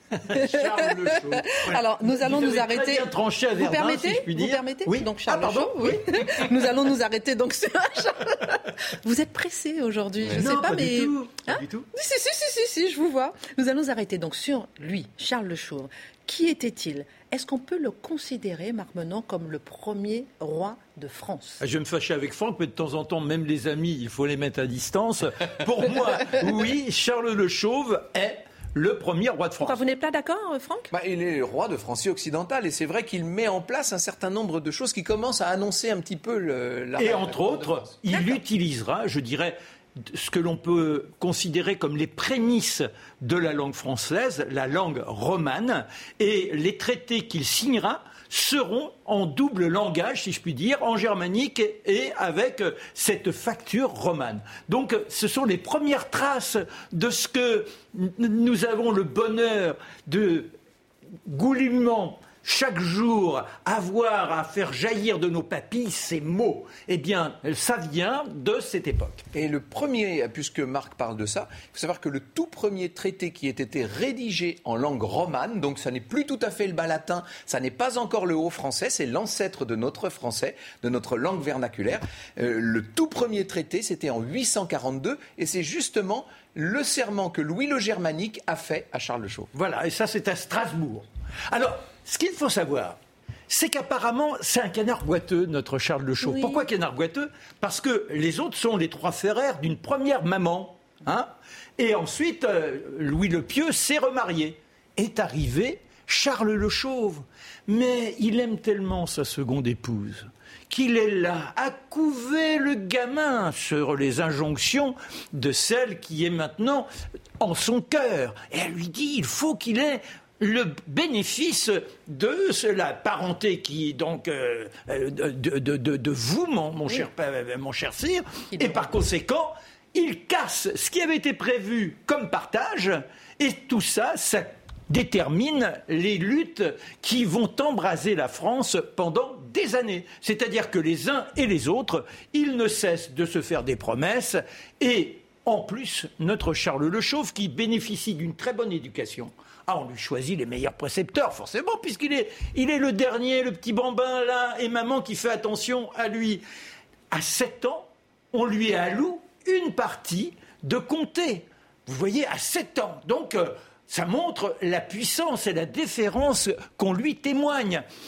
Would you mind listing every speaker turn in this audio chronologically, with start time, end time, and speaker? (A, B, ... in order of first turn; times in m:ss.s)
0:00.2-0:06.5 A
0:00.3-0:21.6 B
0:10.3-0:11.9 A
0:21.6-0:29.8 A
0:29.6-0:30.9 B
0:30.9-0:38.3 C
0:37.0-1:00.5 A
1:01.2-1:09.2 A
1:09.3-1:29.5 C
1:29.5-1:56.9 A
1:36.2-1:36.6 B
1:57.4-2:36.4 A
2:08.5-2:08.9 B
2:37.1-2:47.8 A